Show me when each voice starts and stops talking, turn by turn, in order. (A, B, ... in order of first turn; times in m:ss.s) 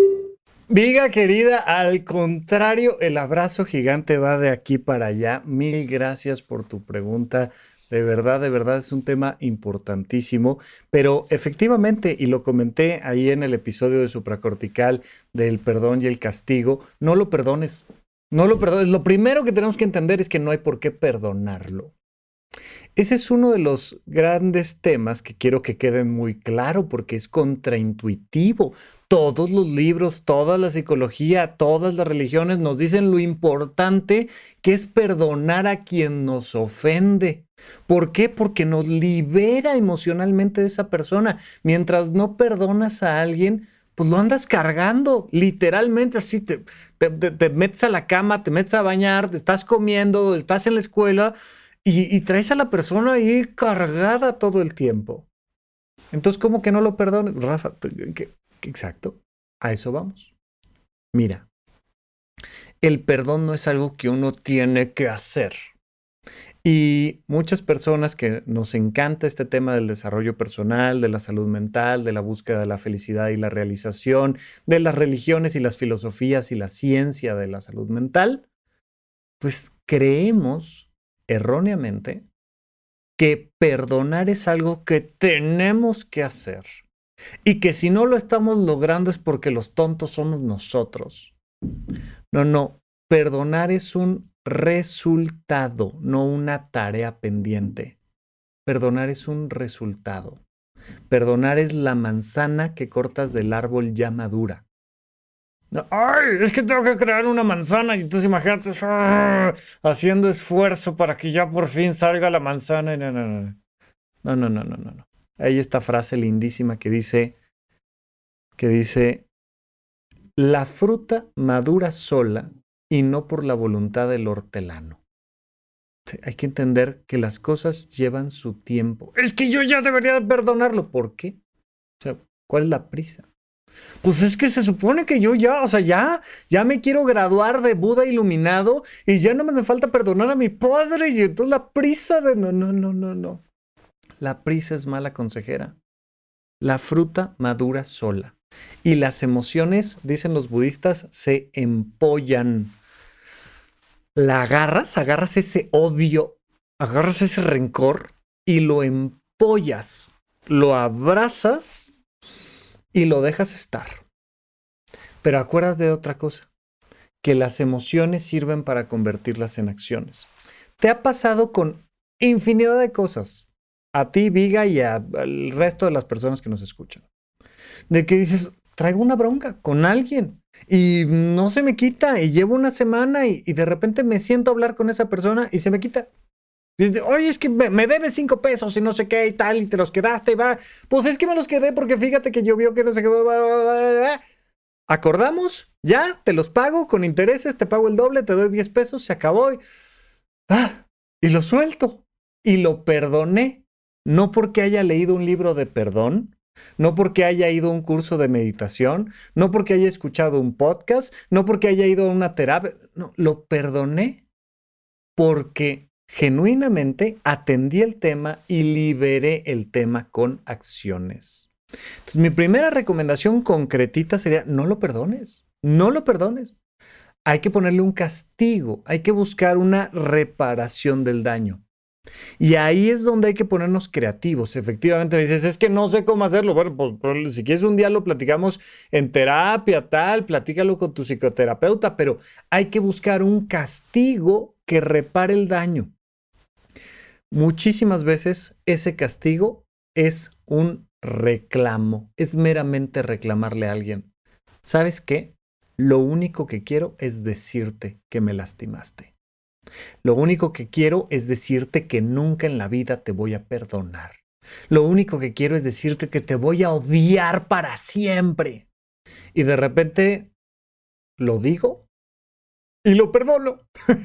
0:00.7-0:21.9 A
0:23.0-0:55.3 A
0:56.1-1:00.3 A
1:01.1-1:01.5 A
1:02.8-1:05.7 A
1:06.6-1:18.4 A
1:19.4-1:22.2 A
1:23.2-1:26.7 A
1:27.4-1:31.4 A
1:32.3-1:38.0 A
1:38.7-1:40.4 A
1:41.1-1:44.6 A
1:45.7-1:53.6 A
1:54.2-1:57.4 A
1:58.6-1:59.3 A
2:00.4-2:05.0 A
2:06.1-2:11.4 A
2:12.0-2:13.3 A
2:14.0-2:23.4 A
2:24.2-2:25.8 A
2:26.6-2:32.7 A
2:34.2-2:41.9 A
2:42.9-2:44.0 A
2:45.2-2:46.5 A
2:47.2-2:50.3 A
2:50.8-2:57.0 A
2:57.9-3:06.1 A
3:06.8-3:14.2 A
3:14.9-3:19.6 A
3:20.5-3:34.2 A
3:35.2-3:41.5 A
3:42.1-3:46.6 A
3:47.3-3:51.6 A
3:52.4-4:05.9 A
4:07.3-4:14.1 A
4:14.6-4:19.1 A
4:20.0-4:24.2 A
4:24.7-4:28.7 A
4:29.3-4:30.3 A
4:31.2-4:31.9 A
4:32.8-4:33.6 A